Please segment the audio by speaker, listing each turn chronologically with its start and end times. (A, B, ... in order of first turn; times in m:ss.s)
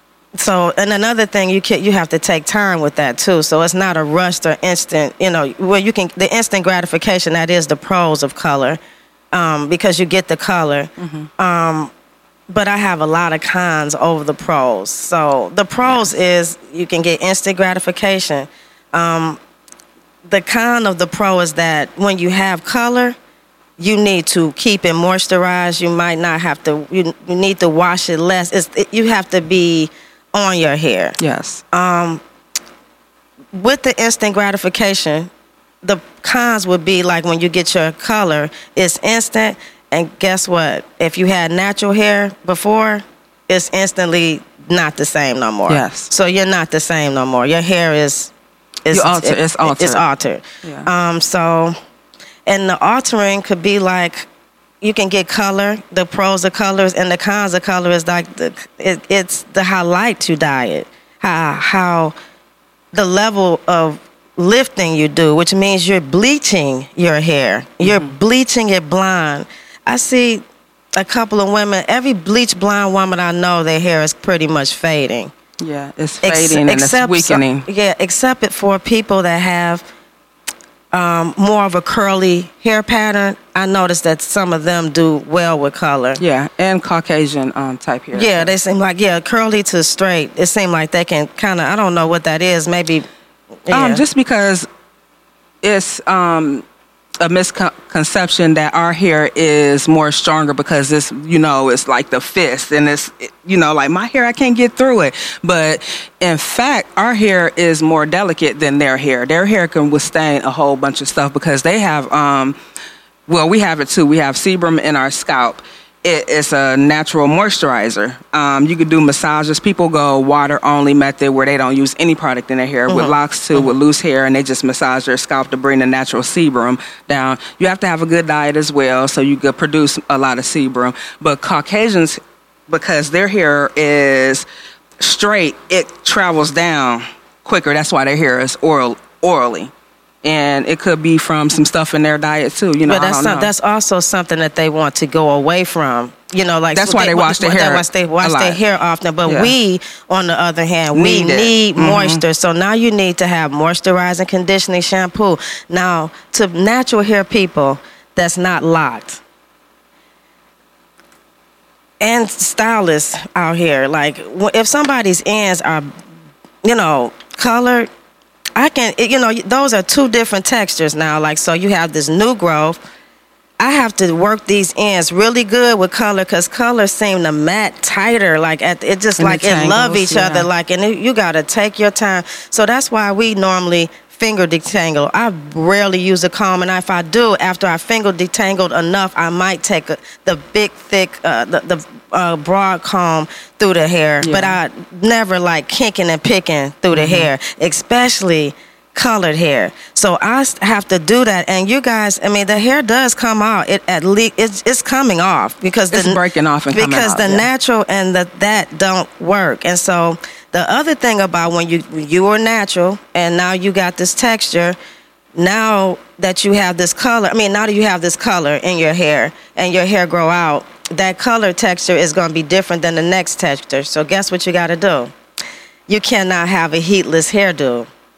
0:00.4-0:08.8 A
0:09.3-0:11.9 A
0:11.0-0:11.3 B
0:12.5-0:19.4 A
0:20.2-0:23.2 A
0:23.8-0:31.2 A
0:31.2-0:31.6 B
0:31.7-0:32.2 A
0:33.5-0:35.3 A
0:35.8-0:48.3 A
0:45.7-0:46.1 B
0:48.8-0:51.8 A
0:48.9-0:50.0 B
0:50.6-0:50.9 B
0:52.4-0:54.3 A
0:54.8-1:02.1 A
1:02.9-1:10.4 A
1:07.8-1:08.1 B
1:10.9-1:15.3 A
1:15.6-1:17.6 B
1:16.2-1:19.8 A
1:20.9-1:26.2 A
1:26.2-1:28.5 B
1:28.1-1:33.1 A
1:33.6-1:34.0 A
1:33.7-1:34.7 B
1:35.6-1:36.6 B
1:37.2-1:52.6 B
1:53.3-2:14.4 B
2:02.9-2:03.6 A
2:15.0-2:19.7 B
2:20.2-2:23.5 B
2:22.8-2:39.2 A
2:26.7-2:28.6 B
2:29.2-2:29.5 B
2:30.9-2:32.2 B
2:42.0-2:45.9 A
2:46.6-2:47.9 A
2:48.6-2:52.8 A
2:53.6-3:26.2 A
2:59.2-3:00.5 B
3:14.2-3:14.6 B
3:16.9-3:17.3 B
3:25.9-3:27.5 B
3:26.7-3:34.8 A
3:35.4-3:45.1 A
3:45.9-3:47.9 A